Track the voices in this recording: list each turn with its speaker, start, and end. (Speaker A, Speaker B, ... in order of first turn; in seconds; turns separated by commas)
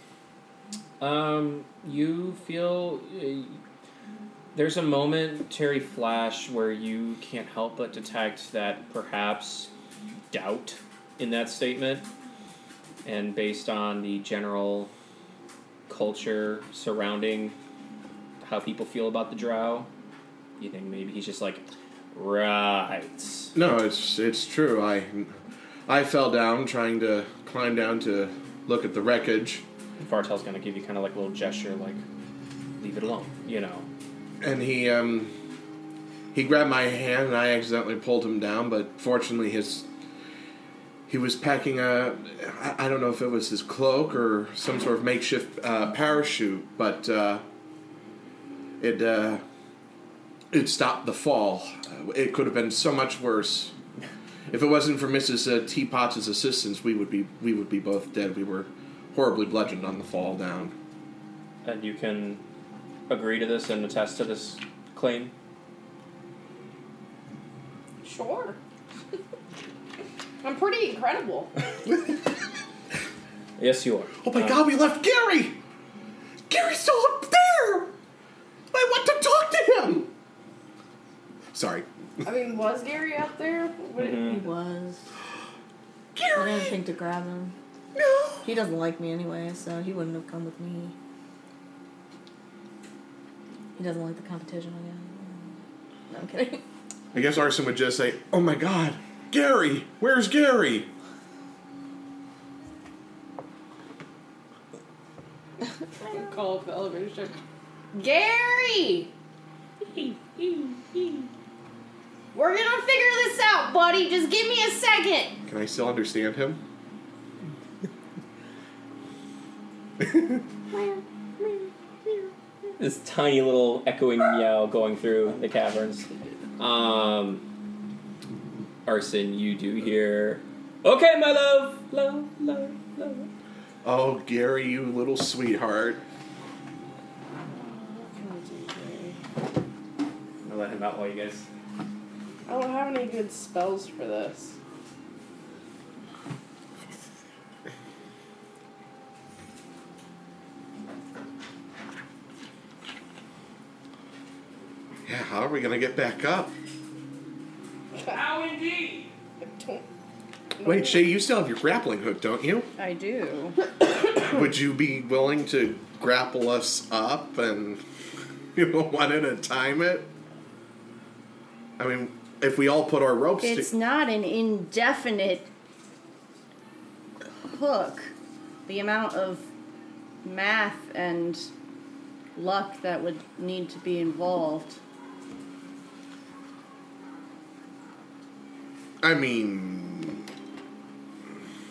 Speaker A: 1.0-3.6, Speaker A: 4.5-9.7, Speaker A: 10.3-12.1, Speaker A: 13.0-14.9, Speaker A: 15.9-17.6, Speaker A: 18.4-19.9, Speaker A: 20.6-23.6, Speaker B: 23.5-25.4, Speaker B: 25.9-29.6, Speaker A: 30.0-32.0, Speaker A: 32.8-33.9, Speaker B: 34.4-35.3, Speaker B: 36.3-39.9, Speaker B: 41.1-47.5, Speaker B: 48.8-49.4, Speaker B: 50.5-53.8, Speaker B: 54.5-60.7, Speaker A: 61.6-62.4, Speaker A: 63.1-65.3, Speaker C: 68.0-68.6, Speaker C: 70.4-71.5, Speaker A: 73.6-74.7, Speaker B: 74.2-75.6, Speaker B: 76.5-77.9, Speaker B: 78.7-80.1, Speaker B: 81.5-81.9, Speaker C: 82.2-84.5, Speaker A: 84.0-84.4, Speaker D: 84.4-85.0, Speaker B: 86.2-86.8, Speaker D: 86.3-87.6, Speaker B: 88.0-88.5, Speaker D: 88.4-91.0, Speaker D: 93.8-96.6, Speaker B: 97.1-100.9, Speaker C: 106.0-107.4, Speaker C: 107.9-109.1, Speaker C: 109.8-111.3, Speaker C: 112.3-115.4, Speaker B: 115.5-116.6, Speaker C: 120.7-121.0, Speaker A: 122.8-127.4, Speaker A: 128.9-133.3, Speaker B: 133.8-136.0, Speaker C: 137.5-139.2, Speaker A: 140.4-141.5, Speaker C: 142.5-144.6, Speaker B: 155.1-156.5, Speaker A: 158.1-159.1, Speaker C: 159.4-159.8, Speaker C: 160.6-161.0, Speaker B: 160.6-162.7, Speaker E: 162.8-163.6, Speaker B: 164.2-167.8, Speaker B: 168.5-170.1, Speaker B: 171.8-173.7, Speaker E: 173.4-175.5, Speaker E: 177.2-178.1, Speaker E: 178.7-179.5, Speaker E: 180.2-181.5, Speaker E: 182.3-184.8, Speaker B: 189.0-190.3